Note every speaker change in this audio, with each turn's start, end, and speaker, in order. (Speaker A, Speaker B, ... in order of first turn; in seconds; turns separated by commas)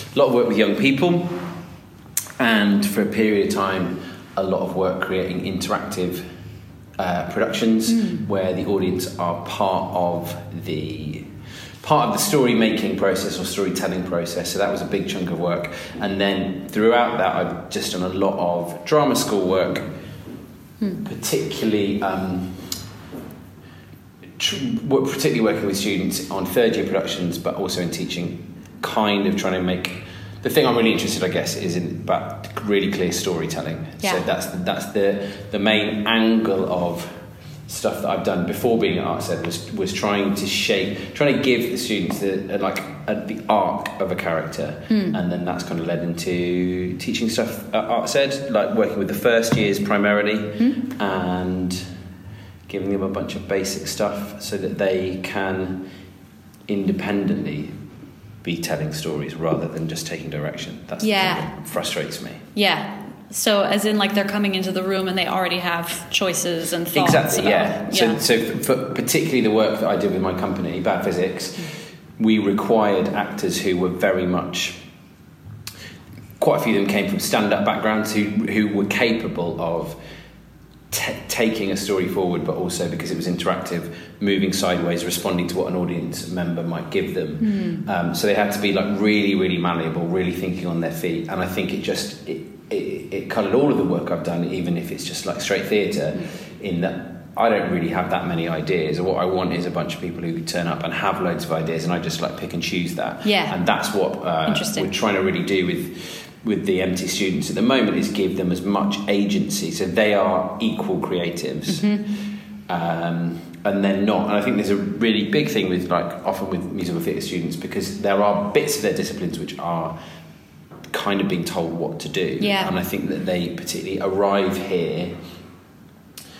Speaker A: 0.1-1.4, Speaker A: 2.4-6.2, Speaker A: 7.0-11.3, Speaker A: 11.8-19.8, Speaker A: 21.0-22.6, Speaker A: 24.4-37.1, Speaker A: 37.7-51.8, Speaker A: 52.7-55.8, Speaker A: 56.7-57.7, Speaker A: 58.4-62.4, Speaker B: 61.0-61.5, Speaker B: 62.6-68.2, Speaker A: 66.9-74.8, Speaker A: 76.4-80.0, Speaker A: 80.9-112.0, Speaker B: 87.5-87.8, Speaker B: 103.2-103.6, Speaker B: 104.5-104.9, Speaker B: 111.7-112.0, Speaker A: 112.7-119.9, Speaker A: 120.9-125.1, Speaker B: 122.4-122.7